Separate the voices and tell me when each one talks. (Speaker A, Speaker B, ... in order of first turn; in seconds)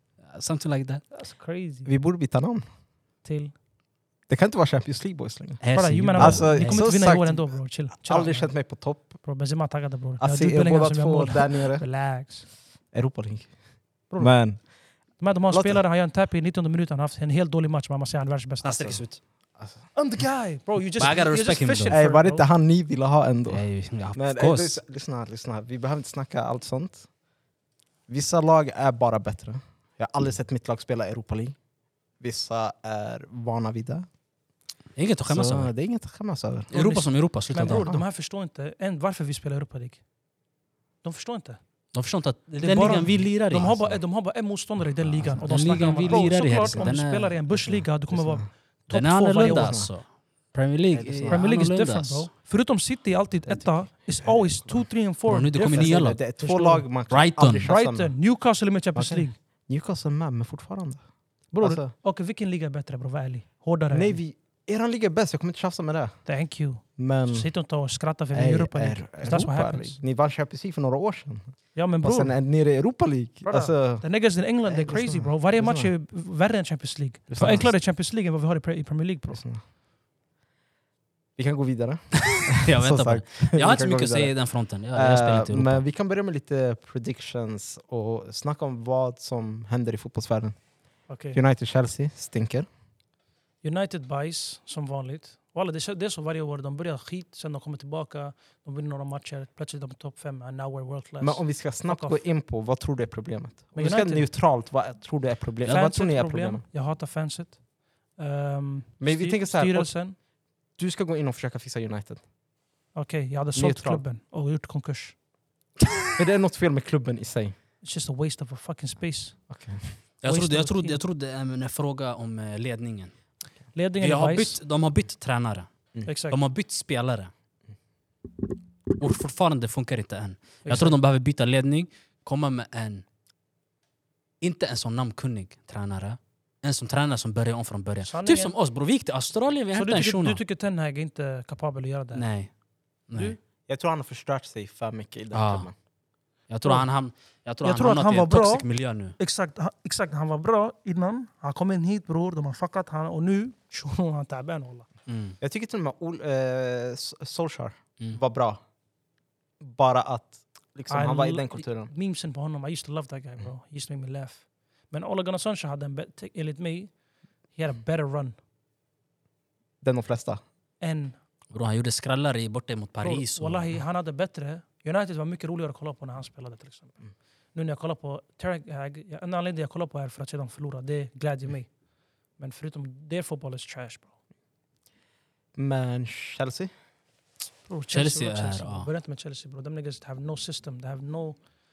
Speaker A: 0.2-1.0, 5.6-6.9, 18.6-19.2, 21.0-22.0, 23.5-24.8, 35.0-35.7, 36.7-37.9, 41.9-43.7, 45.4-47.4, 48.9-52.3, 55.2-56.2, 57.1-57.7, 82.3-85.8, 120.2-123.1, 124.0-127.3, 128.9-133.0, 134.4-140.4, 142.1-142.5, 143.1-143.3, 145.3-145.7, 146.5-149.2, 155.1-155.4, 171.5-173.8, 187.9-188.9
Speaker B: 1.1-1.9, 3.2-3.5, 5.7-12.5, 14.1-14.6, 15.2-19.0, 19.9-22.5, 36.7-40.0, 41.0-41.6, 42.6-49.8, 51.3-56.9, 57.6-59.4, 61.5-64.2, 66.2-70.0, 71.7-72.4, 73.4-79.4, 91.1-91.4, 93.6-102.2, 103.7-104.3, 105.6-107.6, 108.2-110.2, 112.9-115.2, 117.8-119.4, 120.2-121.0, 123.7-124.6, 126.0-126.4, 130.6-131.0, 138.0-138.5, 139.7-142.3, 143.1-143.4, 147.6-154.9, 160.9-166.9, 167.5-168.3, 170.8-171.1, 173.0-177.0, 177.5-181.7, 182.4-184.1, 187.7-191.4
Speaker C: 1.8-2.7, 4.3-9.2, 10.2-11.8, 12.9-14.7, 15.5-15.8, 19.6-19.9, 21.9-27.1, 28.1-31.6, 32.2-34.0, 35.2-36.7, 37.5-38.0, 43.5-44.0, 45.0-47.0, 47.5-48.5, 49.4-49.9, 50.9-51.4, 53.4-54.8, 55.6-58.1, 58.9-61.0, 61.6-61.9, 63.9-66.2, 67.0-67.5, 68.3-74.0, 74.7-75.9, 77.3-77.7, 79.3-79.6, 81.3-84.3, 84.9-90.5, 91.3-92.7, 101.2-106.6, 109.0-109.9, 110.8-112.2, 113.5-114.0, 116.2-117.5, 119.5-120.0, 143.7-145.7, 155.4-158.6, 159.6-161.9, 169.8-170.4, 185.5-186.7